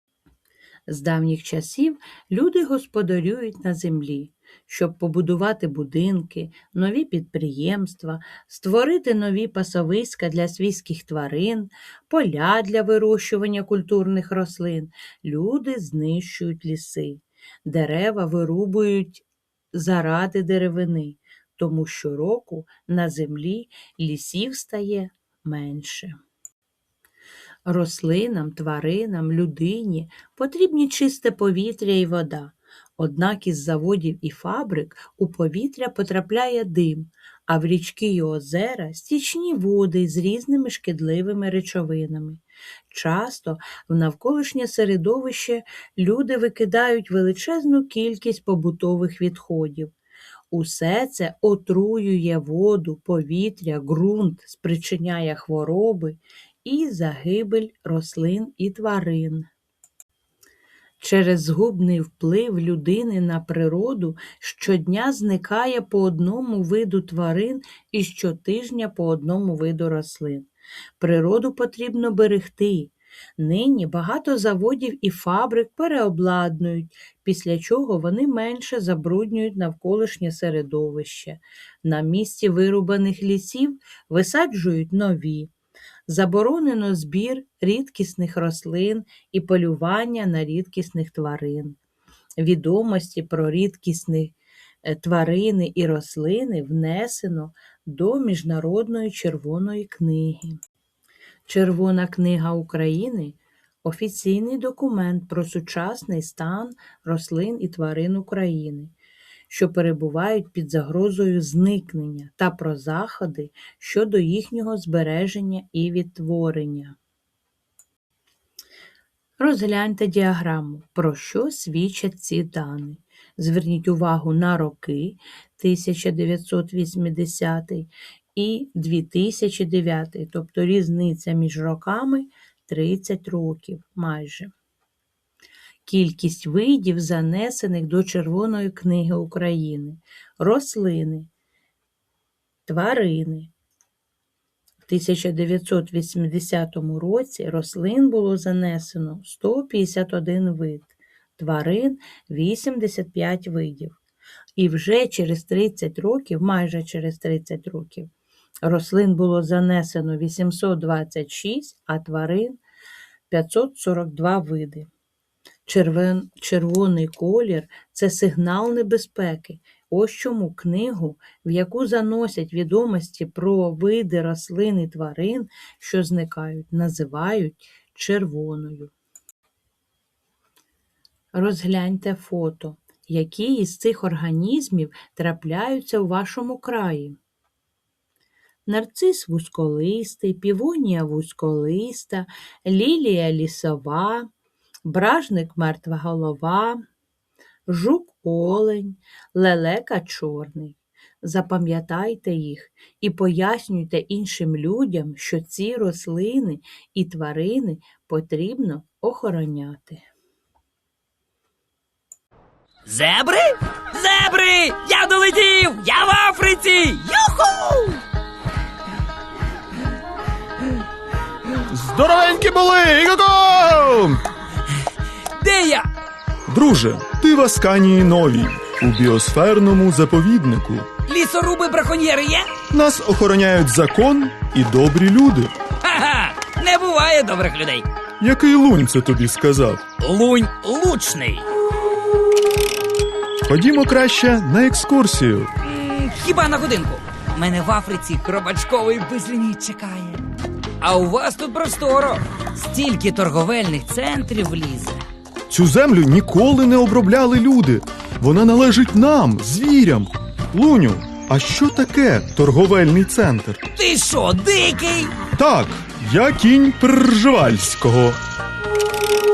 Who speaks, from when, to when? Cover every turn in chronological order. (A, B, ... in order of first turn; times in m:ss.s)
0:00.9-0:26.2 A
0:27.7-0:49.9 A
0:50.5-0:59.5 A
1:01.0-1:10.5 A
1:11.0-1:25.5 A
1:26.1-1:31.8 A
1:32.4-1:40.6 A
1:41.5-1:48.9 A
1:49.5-1:57.0 A
1:59.4-2:14.5 A
2:15.8-2:21.3 A
2:22.7-2:23.5 A
2:24.9-2:34.0 A
2:34.6-2:38.1 A
2:38.6-2:42.6 A
2:43.3-2:44.9 A
2:45.7-2:58.9 A
3:01.3-3:07.2 A
3:08.7-3:14.3 A
3:14.8-3:16.8 A
3:17.7-3:30.0 A
3:32.9-3:38.0 B
3:41.7-3:44.2 C
3:45.4-3:45.9 B
3:46.5-3:50.9 C
3:51.1-3:52.5 B
3:52.7-3:55.5 C
3:55.8-3:57.9 B
3:58.2-3:59.8 C
4:00.0-4:01.4 B
4:03.5-4:05.5 C
4:05.6-4:10.2 B
4:10.8-4:15.0 B
4:15.5-4:23.6 C
4:23.8-4:25.2 B
4:25.4-4:28.2 C